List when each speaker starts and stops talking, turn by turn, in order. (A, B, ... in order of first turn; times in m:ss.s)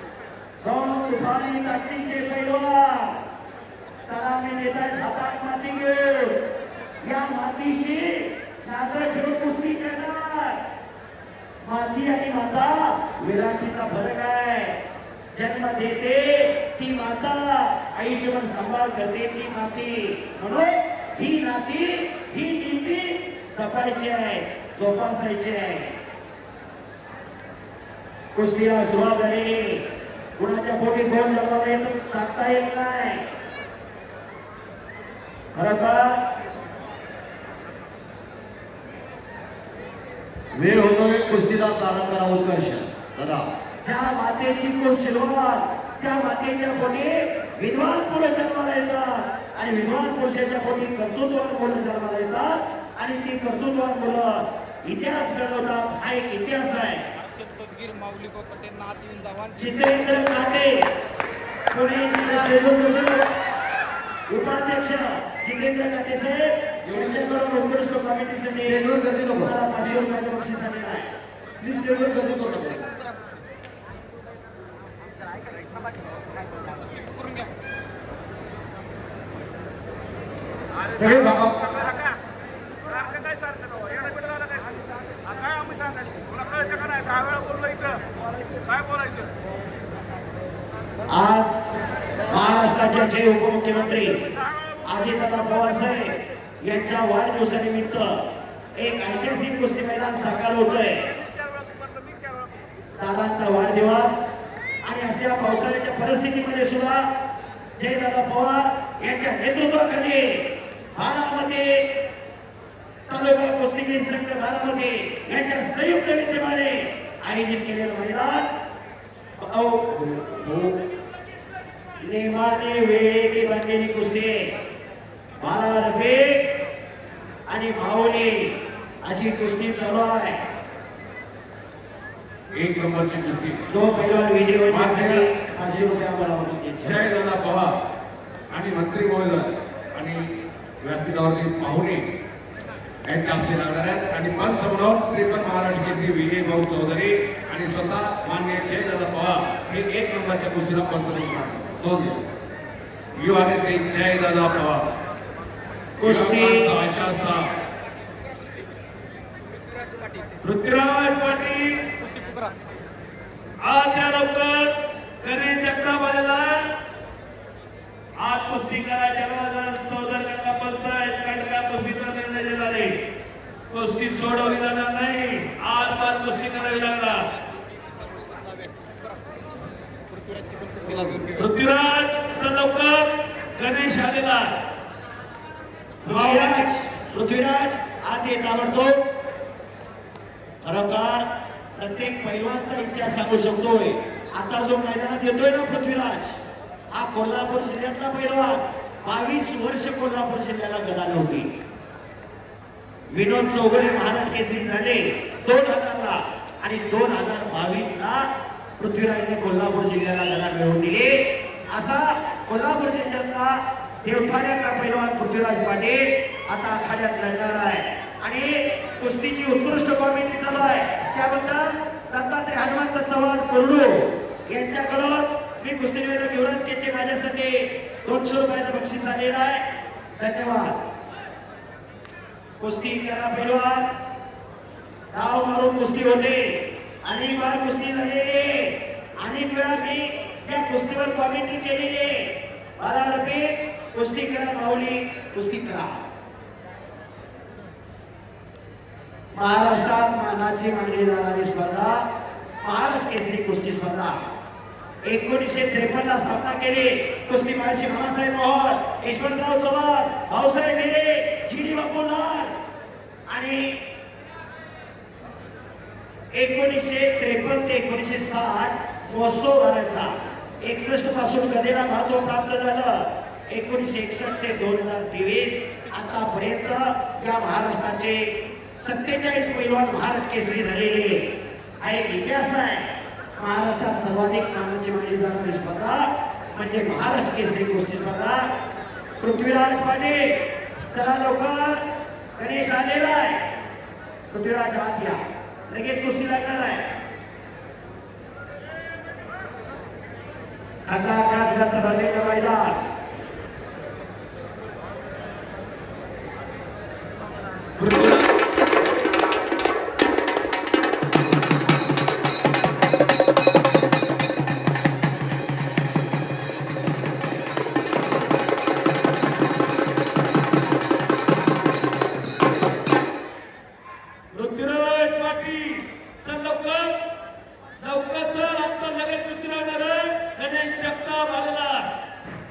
0:00.6-0:03.2 A
0:04.0-0:06.4 A
0:07.0-0:10.6 A
0:11.6-0:14.8 A
0:15.3-0:25.9 A
0:28.3-0:33.2 A
0:35.5-0:36.2 A
0:40.5-0:43.5 B
0:43.8-0:57.0 A
0:57.1-1:00.3 C
0:59.6-1:00.9 A
1:01.7-1:03.3 A
1:04.3-1:11.1 A
1:08.6-1:09.5 B
1:11.6-1:12.9 B
1:12.8-1:13.3 C
1:15.4-1:17.5 C
1:21.0-1:21.5 B
1:21.5-1:21.9 C
1:23.5-1:24.4 C
1:25.5-1:27.4 C
1:31.1-1:34.2 A
1:34.8-1:38.2 A
1:38.8-1:41.1 A
1:43.0-1:47.1 A
1:47.8-1:51.8 A
1:53.1-1:58.5 A
1:59.4-2:00.7 A
2:02.0-2:04.5 A
2:05.4-2:06.5 A
2:07.5-2:10.4 A
2:12.5-2:13.6 D
2:13.7-2:17.0 A
2:14.7-2:15.2 D
2:16.8-2:17.7 D
2:18.5-2:20.3 D
2:20.8-2:22.1 D
2:23.0-2:32.2 D
2:33.2-2:34.8 D
2:36.0-2:36.7 A
2:36.0-2:37.4 D
2:38.2-2:38.9 C
2:39.5-2:40.4 C
2:40.4-2:41.8 D
2:42.0-2:42.6 C
2:43.6-2:46.7 D
2:48.2-2:52.9 D
2:53.7-2:57.2 D
2:57.3-2:59.4 C
3:00.1-3:01.5 C
3:01.4-3:04.5 D
3:06.0-3:09.0 A
3:06.1-3:06.7 D
3:10.6-3:16.4 A
3:16.9-3:21.5 A
3:23.1-3:28.3 A
3:28.8-3:49.6 A
3:50.2-3:50.8 A
3:52.6-3:53.9 A
3:55.1-4:06.0 A
4:09.3-4:12.0 A
4:12.6-4:14.2 A
4:15.0-4:22.5 A
4:23.3-4:23.8 A
4:26.3-4:41.3 A
4:41.8-4:48.5 A
4:49.2-4:51.8 A
4:52.4-4:53.5 A
4:54.3-4:56.9 A
5:00.8-5:02.8 A
5:07.8-5:08.2 D
5:24.3-5:26.9 D
5:27.8-5:31.9 D